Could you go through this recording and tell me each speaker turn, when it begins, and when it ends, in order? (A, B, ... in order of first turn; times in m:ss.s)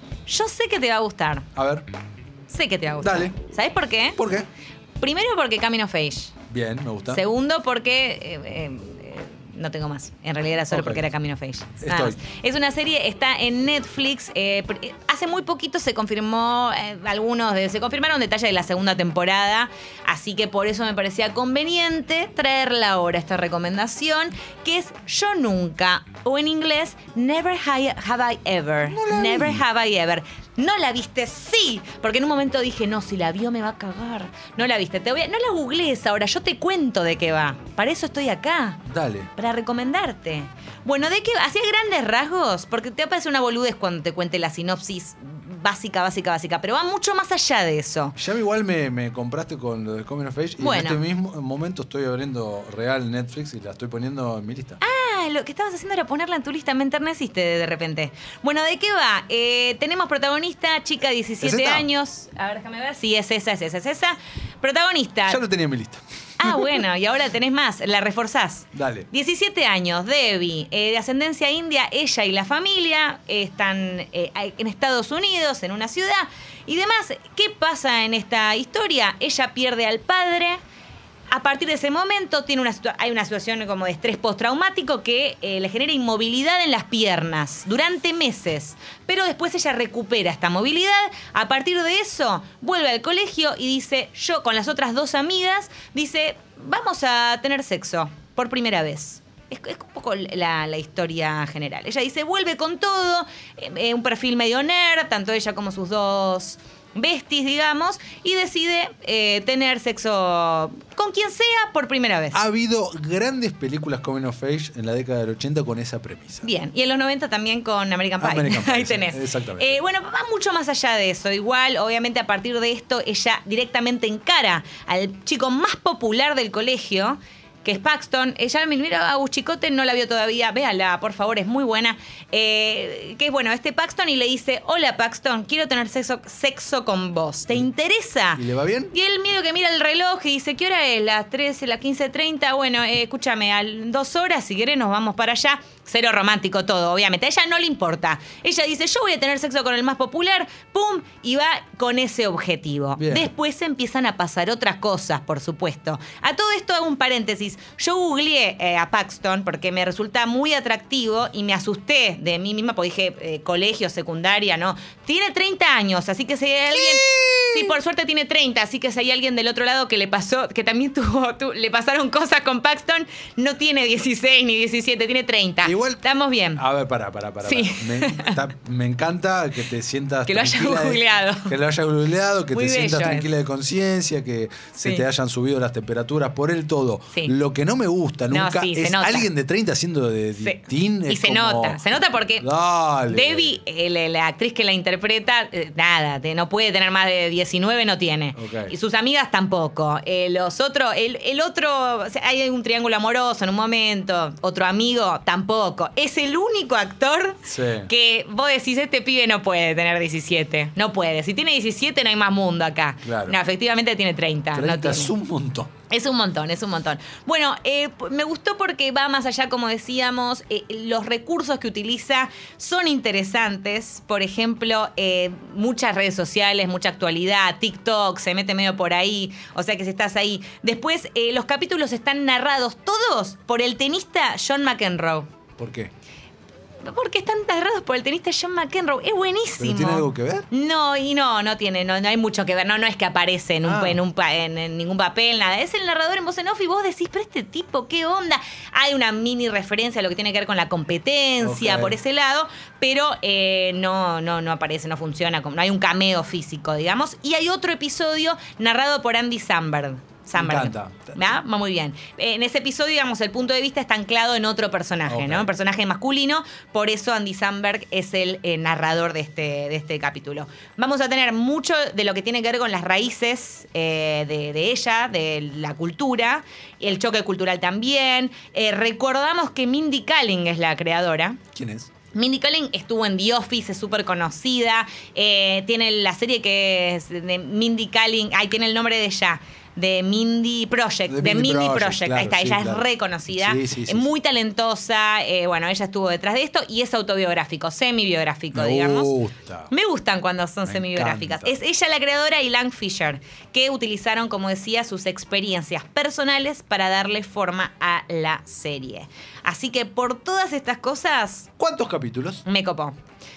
0:00.3-0:01.5 A
0:01.5-0:01.8 B
0:02.5-0:04.2 A
0:03.0-0:03.4 B
0:04.2-0:04.5 B
0:05.0-0:06.3 A
0:06.5-0:07.2 B
0:07.1-0:38.8 A
0:10.7-0:11.1 B
0:11.8-0:12.2 B
0:28.9-0:29.6 B
0:38.9-0:39.3 B
0:39.4-0:48.2 A
0:48.2-0:54.8 B
0:50.6-0:51.0 A
0:54.8-1:05.4 A
1:01.4-1:01.9 B
1:05.3-1:06.8 B
1:06.4-1:20.6 A
1:08.8-1:09.1 B
1:21.3-1:52.4 A
1:52.3-1:56.4 B
1:56.4-2:56.6 A
1:58.2-1:59.8 B
2:18.4-2:18.9 B
2:33.0-2:33.3 B
2:46.7-2:47.8 B
2:55.6-2:56.0 B
2:56.6-3:11.8 B
2:57.4-2:58.4 A
3:00.2-3:01.5 A
3:02.5-3:03.3 A
3:08.3-3:09.3 A
3:10.4-3:12.5 A
3:12.4-3:13.6 B
3:13.1-3:35.1 A
3:18.3-3:18.7 B
3:27.5-3:27.9 B
3:33.0-3:33.4 B
3:34.5-3:35.7 B
3:35.9-3:55.3 A
3:55.6-3:55.9 B
3:56.8-4:41.4 A
3:59.6-4:00.5 B
4:03.6-4:04.0 B
4:11.4-4:12.0 B
4:20.3-4:21.3 B
4:25.1-4:25.5 B
4:41.5-4:41.9 B
4:42.1-4:59.1 A
4:51.1-4:54.1 B
4:58.5-4:59.7 B
4:59.7-5:11.5 A
5:00.6-5:01.6 B
5:11.6-5:12.4 B
5:12.4-5:12.9 A